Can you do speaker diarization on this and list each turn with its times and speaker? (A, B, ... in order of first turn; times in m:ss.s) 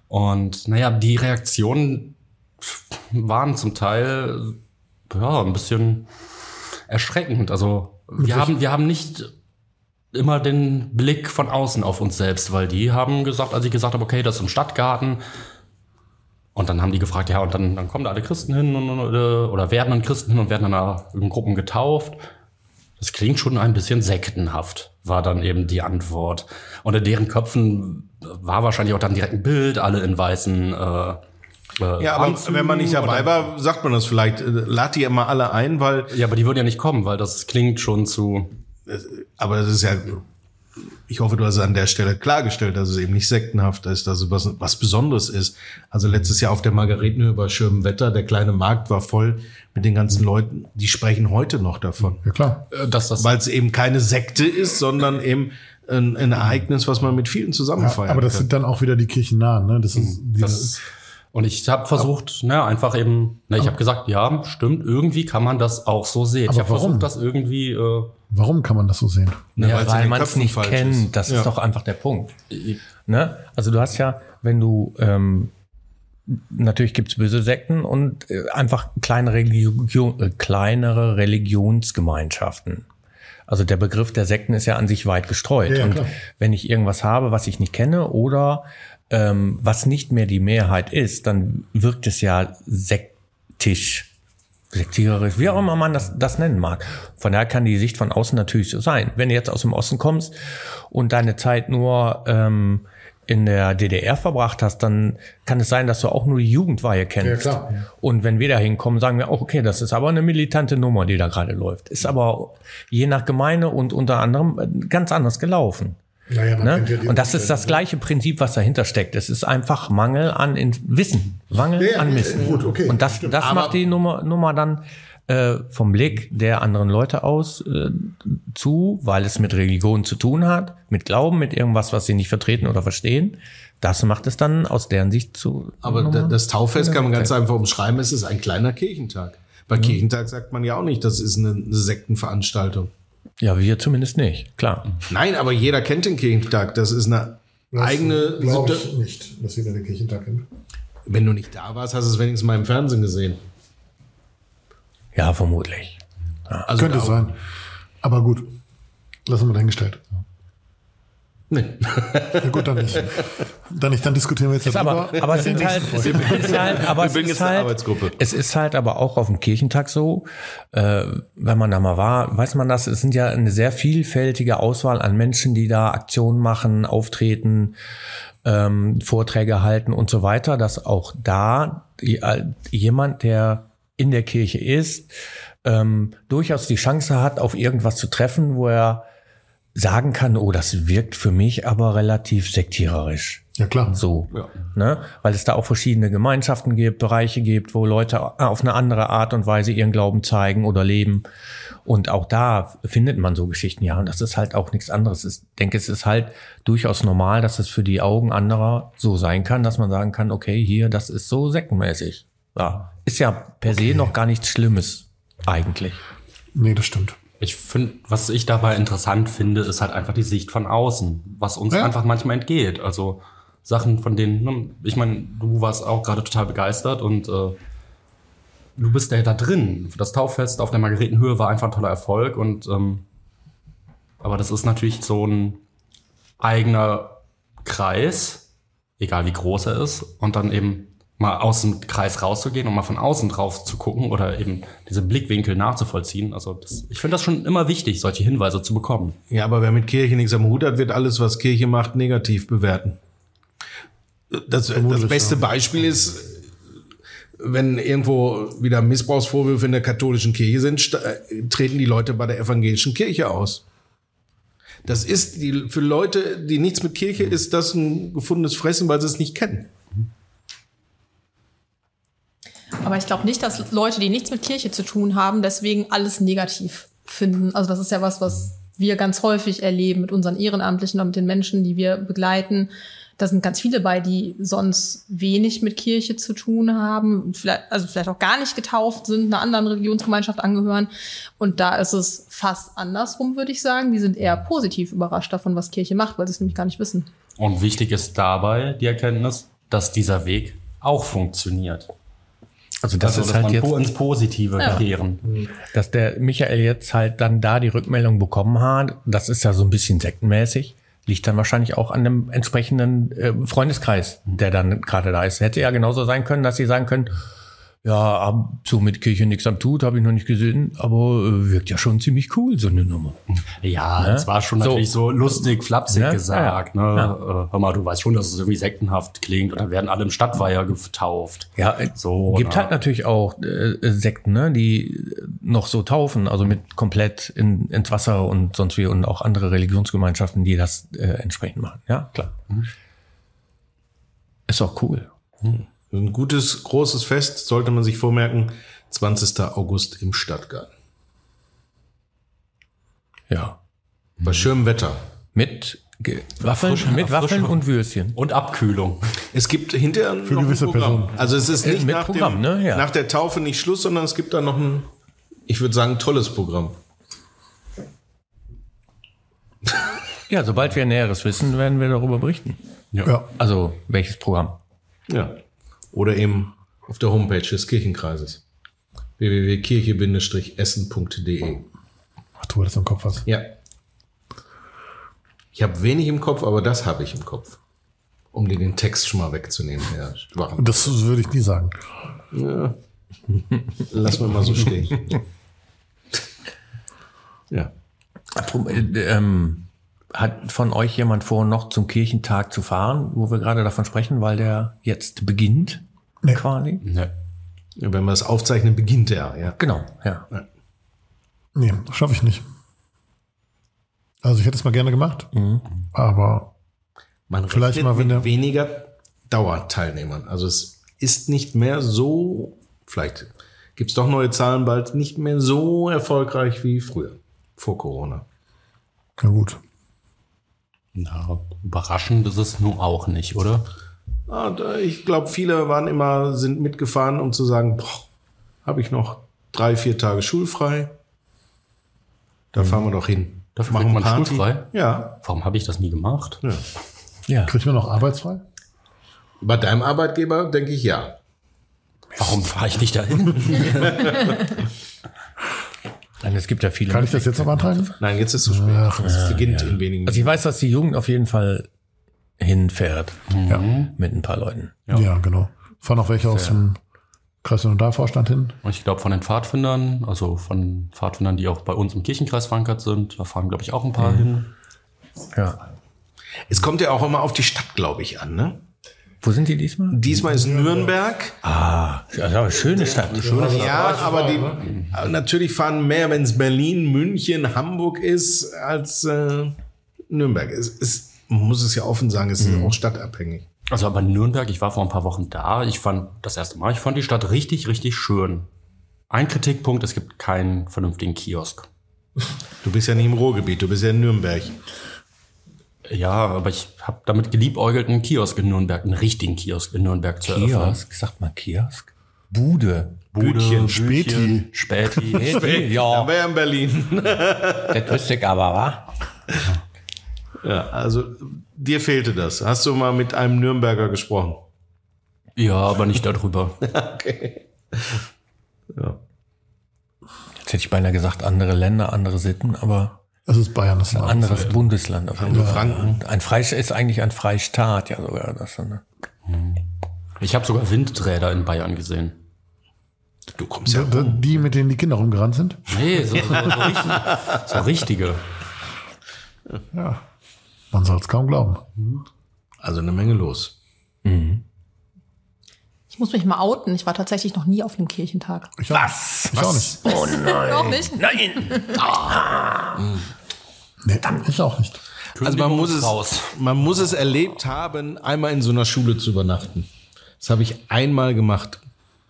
0:00.1-0:04.6 A
0:05.1-0:06.1 A
0:06.9-0:09.3 A
0:08.2-0:08.5 B
0:10.1-0:15.2 A
0:16.6-0:22.2 A
0:23.0-0:31.2 A
0:31.8-0:33.5 A
0:32.0-0:36.1 C
0:36.1-0:38.5 A
0:38.9-0:40.2 C
0:41.1-0:52.2 C
0:52.2-0:52.7 B
0:52.7-0:53.3 A
0:53.2-0:58.5 C
0:57.8-1:00.8 B
1:00.0-1:00.8 A
1:01.3-1:08.1 A
1:06.5-1:07.1 B
1:08.3-1:09.5 B
1:09.6-1:11.5 C
1:09.6-1:12.3 D
1:12.5-1:12.8 A
1:13.1-1:15.5 D
1:16.3-1:22.9 D
1:23.5-1:34.1 D
1:25.7-1:26.1 B
1:34.7-1:40.3 D
1:40.9-1:56.0 D
1:47.2-1:47.8 B
1:56.3-1:57.8 B
1:56.6-2:17.3 D
2:01.8-2:03.4 B
2:03.4-2:03.8 C
2:15.8-2:22.9 C
2:23.4-2:25.0 D
2:25.1-2:28.9 C
2:27.7-2:30.5 B
2:31.1-2:33.4 C
2:35.2-2:36.7 D
2:36.7-2:37.3 C
2:36.7-2:37.4 B
2:38.0-2:38.6 B
2:39.3-2:40.1 B
2:41.5-2:43.2 C
2:42.4-2:46.5 B
2:44.6-2:57.8 D
2:45.2-2:48.2 C
2:58.4-3:05.1 D
3:05.6-3:09.0 D
3:09.8-3:21.2 D
3:13.6-3:14.0 B
3:21.8-3:36.0 D
3:36.5-3:37.2 B
3:37.4-3:47.6 A
3:48.8-3:53.0 A
3:54.2-3:55.6 A
3:56.4-3:58.4 A
3:59.0-4:09.2 A
4:09.3-4:13.0 C
4:14.3-4:16.5 C
4:14.7-4:15.4 B
4:17.4-4:23.6 C
4:24.8-4:29.7 C
4:32.8-4:57.1 E
4:57.4-5:01.9 A
5:02.8-5:03.8 D
5:03.0-5:05.3 A
5:05.7-5:17.2 D
5:17.8-5:23.2 D
5:23.5-5:32.7 A
5:24.0-5:24.9 D
5:25.9-5:27.1 D
5:31.6-5:42.4 D
5:44.5-5:45.1 D
5:45.9-5:50.7 C
5:53.3-5:53.6 D
5:54.2-5:55.0 C
5:55.3-5:58.2 D
5:56.4-5:57.6 A
5:58.2-5:59.1 A
5:59.3-6:04.9 C
6:00.2-6:01.2 B
6:01.6-6:02.9 D
6:05.5-6:06.8 C
6:10.3-6:14.6 D
6:15.1-6:15.4 C
6:15.9-6:18.4 C
6:19.2-6:21.7 C
6:22.4-6:23.3 B
6:23.3-6:23.5 C
6:25.5-6:27.6 C
6:28.3-6:31.0 C
6:30.6-6:31.8 B
6:32.3-6:32.8 C
6:33.8-6:35.2 C
6:38.3-6:46.8 D
6:46.8-6:47.1 A
6:47.8-6:49.6 C
6:49.6-6:50.3 D
6:51.6-6:52.4 B
6:54.2-6:55.3 B
6:55.3-6:55.6 D
6:55.9-6:56.5 B
6:57.3-7:08.2 C
6:57.5-6:58.3 B
7:09.2-7:09.6 B
7:11.0-7:13.7 A
7:14.3-7:18.1 C
7:18.6-7:21.0 C
7:22.5-7:25.2 C
7:23.6-7:26.4 A
7:27.3-7:27.6 D
7:27.5-7:28.4 B
7:29.4-7:31.2 C
7:32.2-7:34.2 A
7:33.7-7:34.3 C
7:36.2-7:38.0 D
7:36.9-7:37.9 B
7:38.0-7:40.4 C
7:38.5-7:39.2 B
7:39.0-7:41.7 D
7:42.4-7:43.3 D
7:43.3-7:43.9 A
7:43.9-7:44.8 D
7:44.9-7:46.8 B
7:46.3-7:46.6 D
7:47.4-7:48.6 B
7:48.6-7:54.5 A
7:54.0-7:54.3 D
7:55.3-7:55.6 D
7:56.5-7:58.6 C
7:59.2-8:00.1 D
7:59.9-8:01.4 C
8:00.3-8:00.9 B
8:01.4-8:03.9 D
8:03.2-8:04.9 A
8:03.2-8:04.6 B
8:03.4-8:09.6 C
8:10.1-8:13.5 C
8:12.4-8:12.8 D
8:13.7-8:18.5 A
8:19.1-8:21.7 A
8:22.6-8:24.6 C
8:25.9-8:30.8 A
8:30.2-8:33.0 D
8:33.1-8:35.4 A
8:33.2-8:33.8 C
8:33.6-8:34.5 B
8:35.1-8:36.1 D
8:35.2-8:37.9 C
8:37.7-8:38.9 D
8:40.4-8:44.4 C
8:45.4-8:46.6 A
8:46.6-8:48.0 C
8:48.7-8:49.0 C
8:50.4-8:53.0 D
8:53.3-8:54.6 B
8:53.9-8:58.8 D
8:55.2-8:56.0 C
8:55.3-8:55.6 B
8:59.3-8:59.6 A
9:00.2-9:02.2 A
9:03.4-9:04.3 C
9:03.7-9:05.9 B
9:05.7-9:08.2 A
9:09.7-9:10.0 B
9:10.7-9:11.6 B
9:12.6-9:13.6 C
9:14.0-9:14.4 D
9:15.9-9:18.6 E
9:18.6-9:19.8 B
9:18.7-9:22.9 D
9:19.4-9:19.7 C
9:19.9-9:21.9 E
9:22.8-9:23.0 C
9:23.8-9:24.8 B
9:25.2-9:26.3 A
9:25.2-9:29.7 C
9:30.2-9:31.6 C